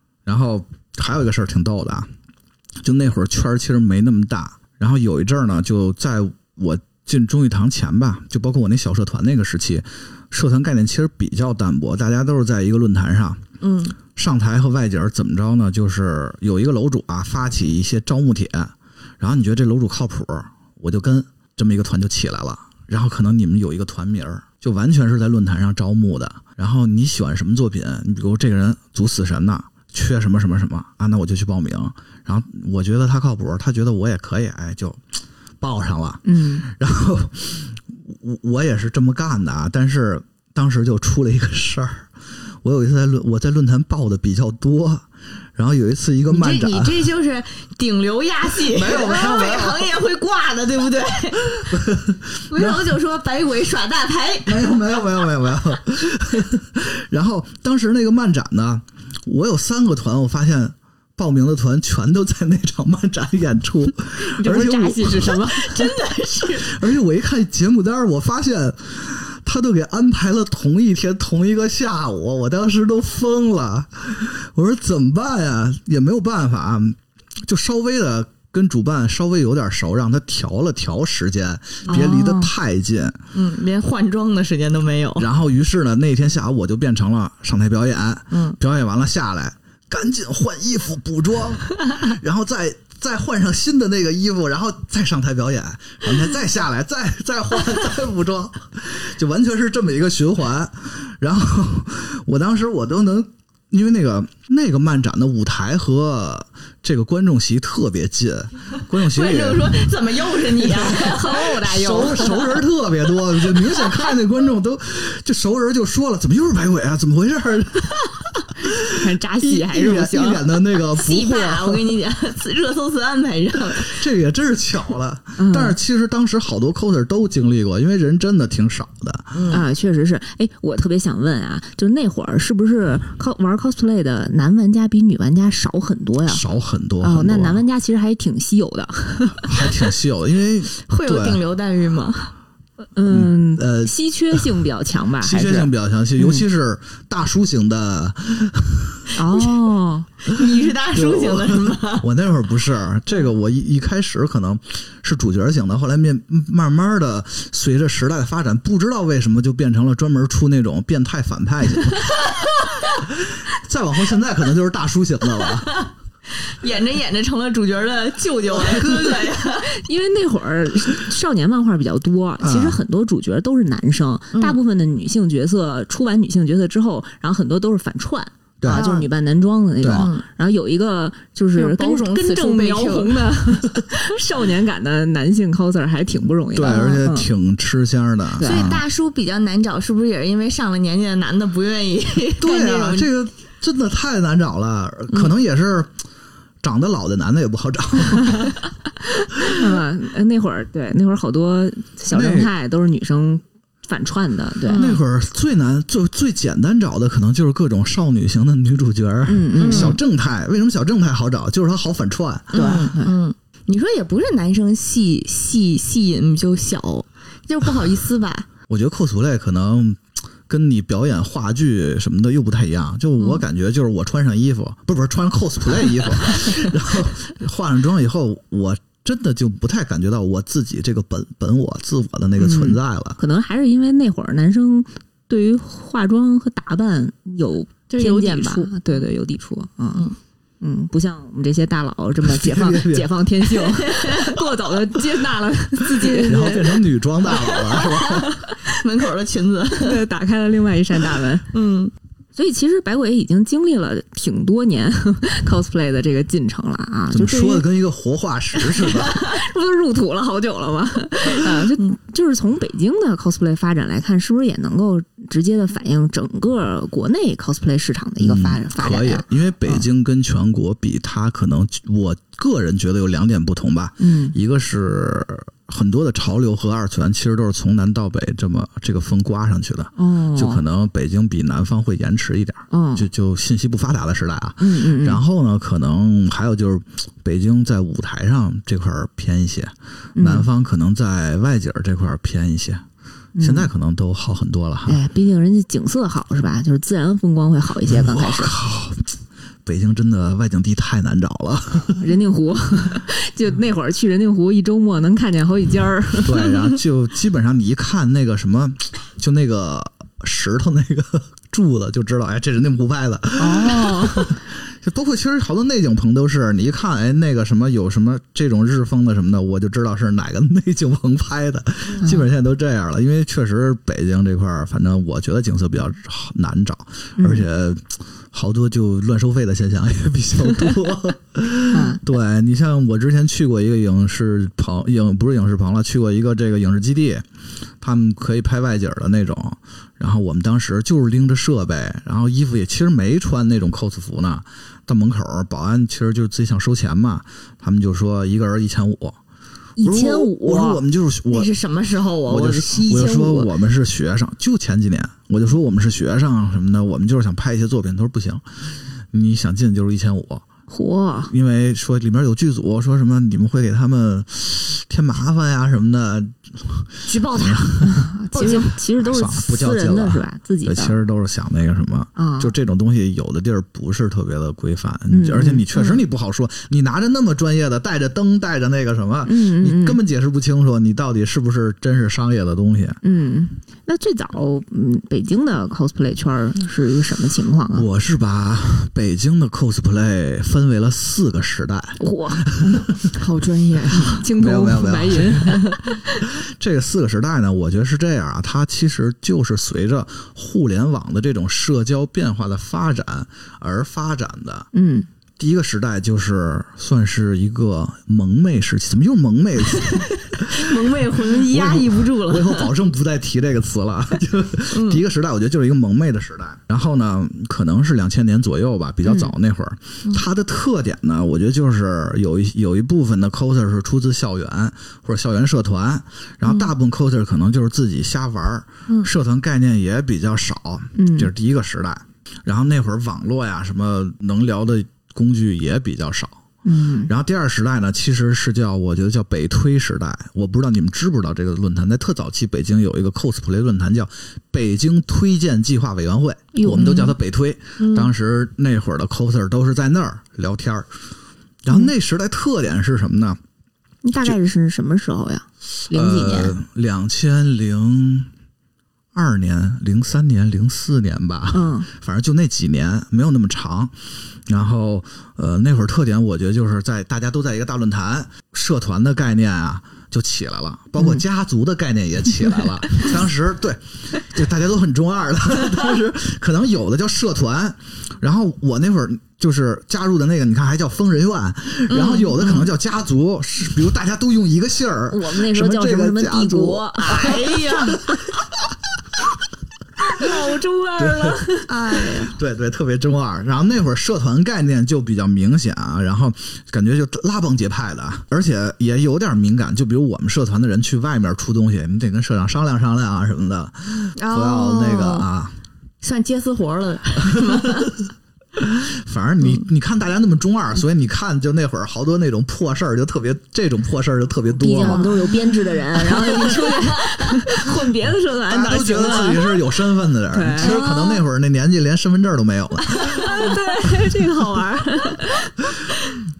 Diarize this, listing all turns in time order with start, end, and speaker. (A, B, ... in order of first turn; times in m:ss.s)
0:00.2-0:02.1 A
0:02.8-0:13.4 A
0:13.6-0:14.0 B
0:14.1-0:35.0 A
0:35.6-0:42.1 A
0:36.2-0:36.6 C
0:42.6-0:45.0 A
0:45.6-0:47.0 A
0:46.3-0:51.8 B
0:48.6-0:49.9 A
0:51.7-0:52.8 A
0:52.5-0:55.0 B
0:54.4-1:05.4 A
1:04.4-1:05.8 C
1:05.0-1:06.7 B
1:06.6-1:23.2 A
1:21.9-1:22.5 C
1:23.3-1:25.3 B
1:25.2-1:49.8 A
1:28.3-1:28.6 B
1:49.0-1:52.4 B
1:50.7-1:52.4 C
1:51.5-2:01.9 A
1:58.8-2:00.5 C
2:00.9-2:04.0 B
2:03.8-2:09.4 A
2:05.4-2:05.8 C
2:09.3-2:09.6 B
2:09.5-2:16.4 C
2:16.2-2:17.6 A
2:17.0-2:19.7 C
2:19.4-2:21.4 A
2:20.8-2:22.3 B
2:22.9-2:26.4 C
2:23.1-2:24.5 A
2:25.2-2:29.1 A
2:29.1-2:30.1 C
2:30.2-2:32.1 B
2:30.9-2:42.1 A
2:43.0-2:45.8 A
2:46.6-2:49.7 B
2:48.7-2:49.2 A
2:49.6-3:07.3 C
2:52.4-2:52.8 A
2:54.3-2:54.6 B
2:58.6-2:58.8 A
2:58.7-2:59.1 B
2:59.8-3:00.1 A
2:59.9-3:00.2 B
3:01.5-3:03.3 B
3:06.5-3:08.8 A
3:08.4-3:08.7 C
3:08.4-3:13.1 B
3:12.4-3:15.9 A
3:16.6-3:18.6 A
3:19.4-3:24.9 C
3:22.1-3:22.5 A
3:24.6-3:25.0 B
3:24.7-3:32.7 A
3:29.3-3:30.0 C
3:29.6-3:30.0 B
3:32.5-3:33.1 C
3:32.5-3:38.5 B
3:38.7-3:53.2 A
3:52.4-4:00.0 C
3:57.9-3:59.0 B
4:00.6-4:06.8 C
4:02.2-4:03.1 A
4:03.6-4:04.4 B
4:06.0-4:06.5 B
4:06.2-4:08.4 A
4:07.8-4:08.6 C
4:08.7-4:10.0 B
4:09.8-4:11.5 C
4:11.5-4:11.9 B
4:12.4-4:17.6 C
4:17.1-4:19.2 A
4:18.6-4:29.8 C
4:28.2-4:52.8 A
4:34.0-4:34.3 C
4:40.0-4:40.6 C
4:42.7-4:43.0 C
4:44.6-4:45.2 C
4:50.2-4:50.5 C
4:53.4-4:53.7 C
4:53.4-4:55.0 A
4:54.9-4:58.6 C
4:57.9-4:59.1 A
4:59.6-5:02.1 A
5:02.0-5:06.6 C
5:06.2-5:37.2 A
5:13.4-5:14.4 C
5:22.0-5:22.3 C
5:27.2-5:27.4 C
5:31.7-5:32.0 C
5:37.8-5:49.2 A
5:49.8-5:50.8 C
5:49.8-5:51.5 A
5:51.3-5:53.5 B
5:52.3-5:58.6 A
5:59.1-6:00.4 A
6:00.7-6:01.3 C
6:01.3-6:08.1 A
6:07.0-6:08.7 B
6:07.8-6:11.0 C
6:09.0-6:23.0 A
6:12.2-6:12.5 C
6:15.1-6:16.0 C
6:19.2-6:20.0 C
6:23.0-6:27.9 C
6:27.7-6:33.1 A
6:32.0-6:32.6 C
6:33.1-6:34.2 B
6:34.0-6:36.2 C
6:34.1-6:44.7 A
6:44.7-6:45.1 C
6:45.4-6:50.7 A
6:49.8-6:52.7 B
6:51.4-7:16.4 A
6:54.7-6:55.0 B
6:59.0-6:59.3 C
7:06.4-7:06.7 C
7:11.0-7:11.3 C
7:16.6-7:17.1 C
7:17.0-7:30.9 A
7:26.5-7:27.2 C
7:26.8-7:27.1 B
7:27.8-7:28.1 B
7:31.6-7:33.4 A
7:34.0-7:36.6 C
7:35.9-7:38.3 A
7:39.1-7:43.9 A
7:41.5-7:41.9 C
7:44.5-8:08.4 A
7:51.0-7:51.2 C
8:01.9-8:02.3 B
8:02.4-8:02.7 C
8:05.1-8:07.5 C
8:07.0-8:08.0 B
8:10.0-8:11.7 C
8:11.0-8:11.4 A
8:11.7-8:12.4 B
8:12.3-8:25.5 A
8:24.1-8:25.3 B
8:26.0-8:28.0 B
8:28.6-8:35.1 A
8:34.6-8:39.6 C
8:34.8-8:35.3 B
8:36.2-8:37.6 B
8:38.5-8:43.4 A
8:40.3-8:40.9 C
8:40.6-8:41.2 B
8:42.9-8:45.5 C